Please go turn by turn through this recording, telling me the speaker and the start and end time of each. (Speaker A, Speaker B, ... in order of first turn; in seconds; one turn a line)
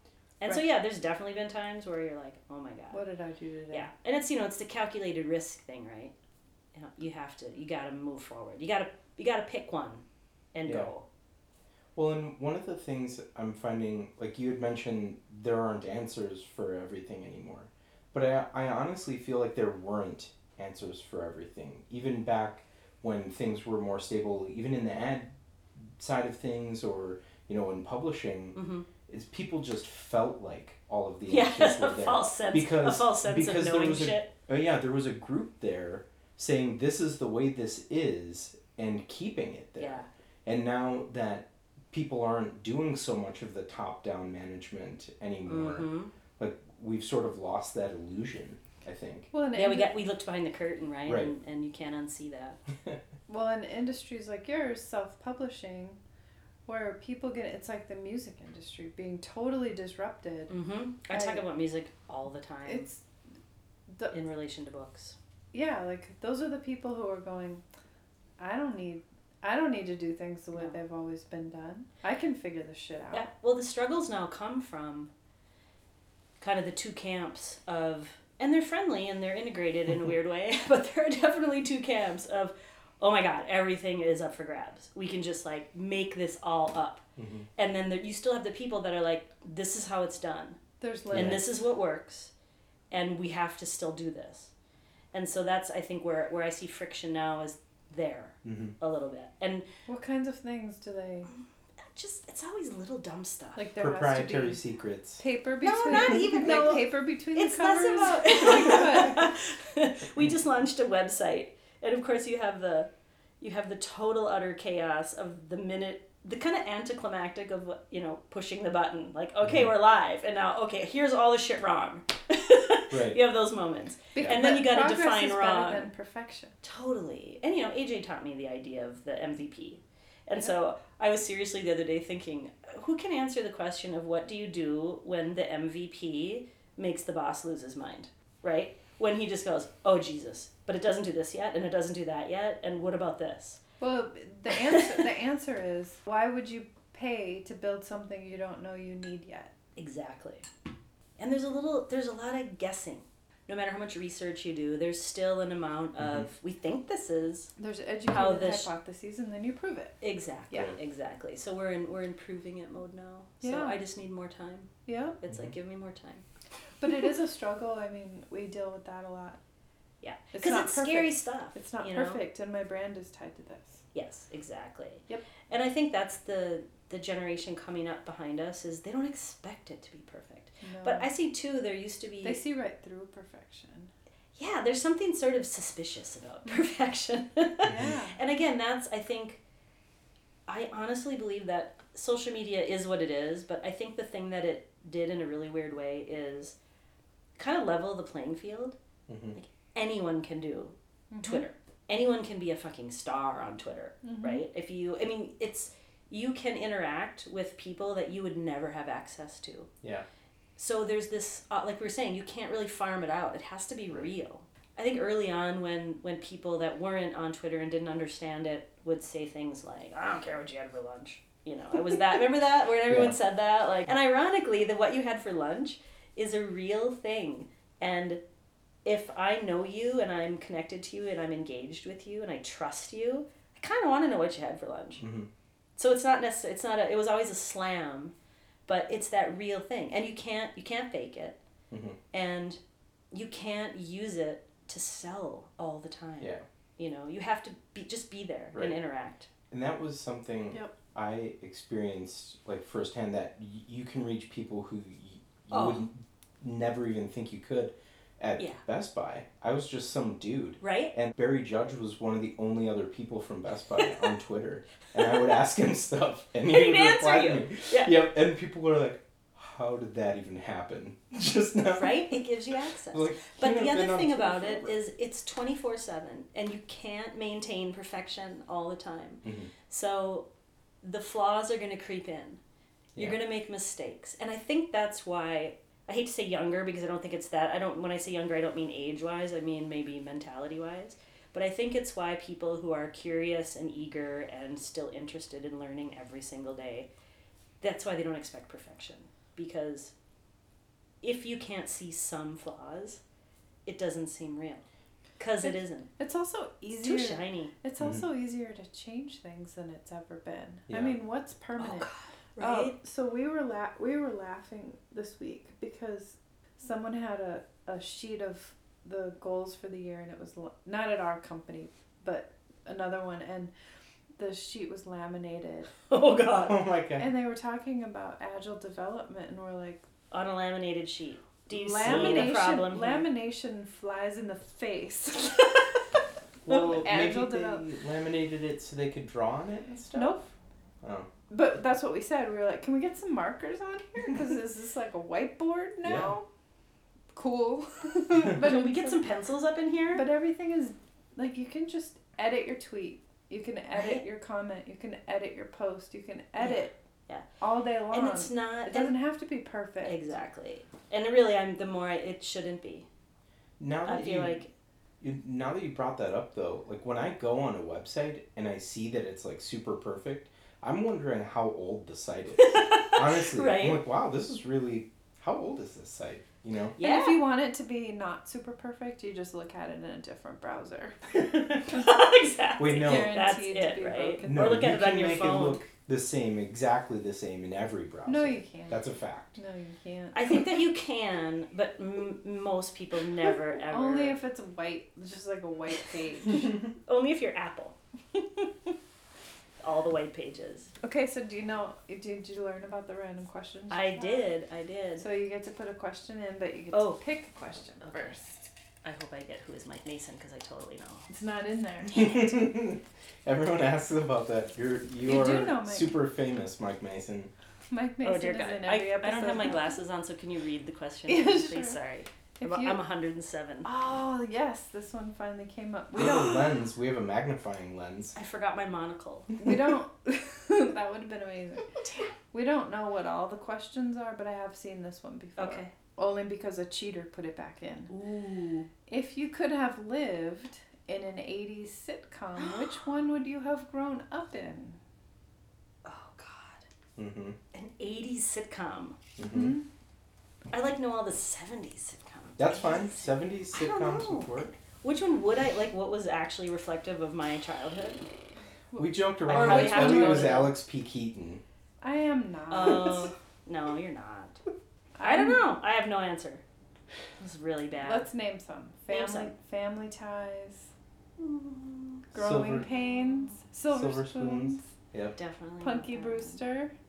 Speaker A: 0.4-3.0
Speaker B: 2.9-3.9
Speaker A: 3.7-6.1
Speaker A: 6.7-11.1
Speaker C: 10.7-10.9
Speaker C: 11.9-49.3
Speaker A: 28.6-28.9
Speaker A: 31.3-34.3
Speaker A: 39.8-40.1
Speaker A: 45.5-46.1
Speaker B: 49.3-49.9
Speaker A: 49.5-52.6
Speaker C: 51.1-51.3
Speaker B: 53.3-56.0
Speaker B: 56.7-60.5
Speaker A: 60.5-62.9
Speaker B: 61.1-61.4
Speaker B: 62.6-63.0
Speaker B: 63.9-64.2
Speaker A: 64.1-65.2
Speaker B: 65.5-67.7
Speaker B: 68.4-73.3
Speaker A: 73.1-75.1
Speaker A: 76.4-87.0
Speaker C: 87.2-87.5
Speaker A: 87.6-90.6
Speaker B: 90.8-91.4
Speaker C: 91.1-91.4
Speaker A: 91.1-92.3
Speaker A: 92.9-94.5
Speaker A: 95.1-99.7
Speaker C: 98.4-98.8
Speaker B: 99.9-101.3
Speaker A: 101.3-103.7
Speaker B: 103.6-104.7
Speaker C: 103.8-105.2
Speaker B: 105.2-109.3
Speaker A: 105.6-125.9
Speaker C: 122.9-123.2
Speaker B: 124.2-126.6
Speaker A: 126.6-143.6
Speaker B: 143.8-149.5
Speaker A: 144.5-145.0
Speaker A: 149.8-150.5
Speaker A: 151.2-157.5
Speaker C: 156.0-156.3
Speaker B: 157.6-160.0
Speaker A: 158.1-158.7
Speaker A: 160.0-166.3
Speaker B: 163.4-163.8
Speaker B: 164.9-165.2
Speaker C: 165.3-165.5
Speaker B: 166.8-169.4
Speaker A: 170.0-172.2
Speaker B: 170.3-173.8
Speaker A: 173.9-182.4
Speaker B: 180.6-181.1
Speaker B: 182.2-183.9
Speaker A: 184.4-189.4
Speaker C: 187.6-187.9
Speaker B: 187.6-188.2
Speaker A: 190.5-196.6
Speaker A: 197.4-198.8
Speaker C: 199.1-199.4
Speaker A: 199.3-209.7
Speaker B: 201.1-201.5
Speaker B: 204.0-204.4
Speaker A: 210.6-228.2
Speaker C: 222.9-223.2
Speaker A: 228.8-235.0
Speaker C: 235.0-235.3
Speaker A: 235.8-238.1
Speaker A: 238.7-241.4
Speaker C: 241.7-242.0
Speaker A: 242.1-242.6
Speaker A: 243.1-249.3
Speaker C: 249.5-272.2
Speaker A: 255.5-255.8
Speaker A: 260.6-260.9
Speaker A: 266.4-268.0
Speaker A: 271.7-280.3
Speaker C: 272.9-274.8
Speaker C: 279.2-279.5
Speaker A: 280.8-282.4
Speaker A: 283.0-296.9
Speaker A: 297.6-299.9
Speaker A: 301.0-303.0
Speaker A: 303.7-304.7
Speaker A: 305.2-305.9
Speaker B: 305.4-323.5
Speaker A: 306.7-307.5
Speaker C: 307.8-308.1
Speaker C: 310.7-311.0
Speaker A: 311.6-312.8
Speaker B: 324.2-325.7
Speaker A: 325.9-326.6
Speaker C: 326.5-327.1
Speaker B: 327.0-329.9
Speaker A: 330.1-333.1
Speaker B: 331.5-335.8
Speaker C: 331.8-332.4
Speaker B: 336.4-337.7
Speaker C: 336.4-340.2
Speaker B: 339.9-340.2
Speaker C: 340.8-341.1
Speaker B: 341.3-346.3
Speaker C: 345.8-346.1
Speaker B: 347.1-349.1
Speaker A: 348.2-350.1
Speaker B: 349.9-356.8
Speaker A: 353.7-354.0
Speaker A: 356.4-357.2
Speaker B: 357.4-360.0
Speaker A: 357.9-358.9
Speaker A: 359.8-362.9
Speaker C: 363.6-364.4
Speaker A: 363.9-364.5
Speaker C: 365.0-376.8
Speaker A: 372.4-373.8
Speaker A: 376.8-377.2
Speaker B: 376.8-381.9
Speaker C: 381.1-381.7
Speaker A: 381.7-385.6
Speaker C: 382.6-383.2
Speaker B: 382.6-384.6
Speaker C: 384.2-389.4
Speaker B: 388.1-390.5
Speaker A: 390.1-394.2
Speaker B: 393.6-396.7
Speaker A: 396.9-397.8
Speaker A: 399.6-400.7
Speaker B: 400.8-404.3
Speaker A: 403.7-405.1
Speaker B: 405.0-408.5
Speaker A: 406.7-407.0
Speaker A: 407.9-408.1
Speaker A: 408.8-411.1
Speaker B: 411.1-412.1
Speaker C: 411.9-417.3
Speaker B: 415.0-416.0
Speaker B: 417.7-419.7
Speaker A: 418.0-423.7
Speaker B: 421.1-421.8
Speaker B: 422.4-422.8
Speaker B: 423.6-426.5
Speaker C: 425.9-428.2
Speaker A: 428.1-429.3
Speaker B: 429.4-437.9
Speaker A: 431.8-432.1
Speaker A: 435.4-435.7
Speaker A: 437.9-438.7
Speaker B: 438.9-444.8
Speaker A: 442.4-442.8
Speaker A: 445.9-446.6
Speaker C: 447.0-447.4
Speaker A: 447.5-449.0
Speaker C: 449.2-449.6
Speaker B: 449.2-449.6
Speaker A: 450.5-458.1
Speaker C: 452.4-454.6
Speaker B: 458.7-460.5
Speaker C: 458.8-461.4
Speaker A: 459.3-460.5
Speaker B: 461.8-463.1
Speaker A: 462.5-464.4
Speaker B: 464.9-465.4
Speaker A: 465.0-466.4
Speaker A: 467.2-468.1
Speaker B: 467.8-470.7
Speaker A: 468.9-469.3
Speaker A: 471.2-472.1
Speaker C: 472.1-472.7
Speaker B: 472.1-474.7
Speaker A: 472.7-473.4
Speaker C: 473.7-475.1
Speaker A: 475.2-476.4
Speaker B: 475.6-476.7